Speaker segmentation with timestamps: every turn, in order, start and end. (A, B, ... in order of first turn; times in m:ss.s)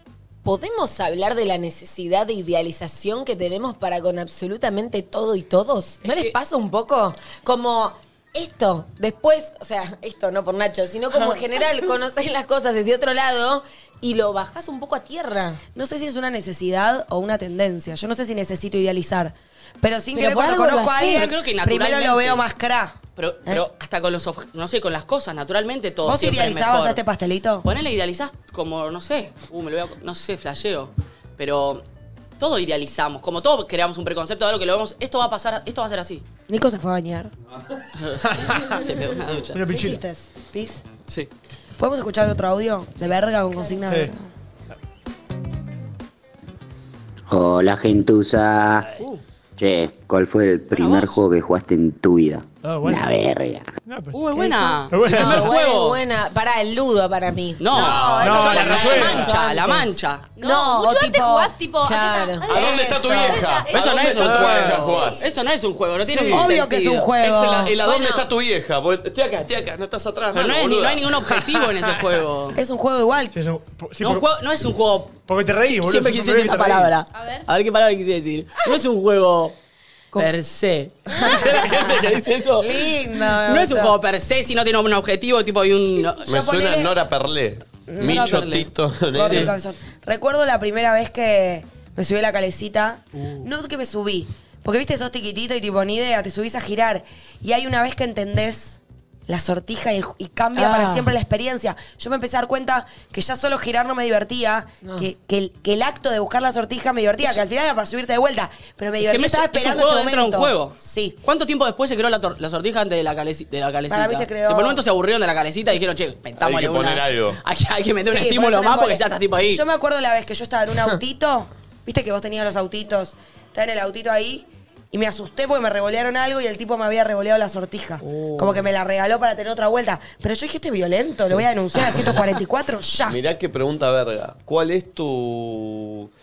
0:00.4-0:15.6 A
0:06.0-0:06.4 B
0:11.1-0:11.4 C
0:15.8-0:23.6 C
0:20.2-0:21.3 A
0:21.1-0:22.4 B
0:23.2-0:27.0 B
0:26.0-0:27.7 C
0:27.6-0:31.8 B
0:32.4-0:36.2 B
0:36.5-0:37.3 C
0:38.0-0:39.6 B
0:38.3-0:38.8 D
0:39.5-0:40.0 D
0:39.7-0:40.8 C
0:41.8-0:44.3 C
0:43.9-0:44.1 D
0:47.3-0:48.9 E
0:49.0-0:49.2 B
0:49.6-0:53.7 E
0:50.7-0:51.2 B
0:52.6-0:53.2 D
0:53.8-0:54.2 D
0:54.1-0:56.0 B
0:54.4-0:57.9 A
0:54.9-0:55.5 D
0:57.6-1:00.2 B
0:57.8-0:58.8 F
0:57.8-1:01.5 C
0:58.1-0:59.4 D
1:00.4-1:05.1 G
1:01.8-1:02.7 A
1:02.5-1:05.2 F
1:02.5-1:03.4 C
1:03.7-1:07.1 B
1:04.4-1:04.9 D
1:06.0-1:06.5 F
1:06.3-1:07.8 C
1:07.2-1:11.1 F
1:07.8-1:08.3 A
1:10.3-1:12.6 B
1:12.5-1:13.4 C
1:13.3-1:14.3 D
1:14.0-1:19.6 B
1:15.3-1:16.9 D
1:17.1-1:17.5 G
1:20.2-1:26.3 B
1:21.1-1:21.8 C
1:22.6-1:24.0 C
1:26.3-1:27.0 C
1:26.3-1:29.6 F
1:27.9-1:51.2 C
1:28.0-1:29.5 B
1:40.6-1:41.1 A
1:49.0-1:59.6 B
1:53.9-1:54.8 C
1:56.4-1:57.4 F
1:58.0-2:13.2 C
2:13.1-2:16.1 F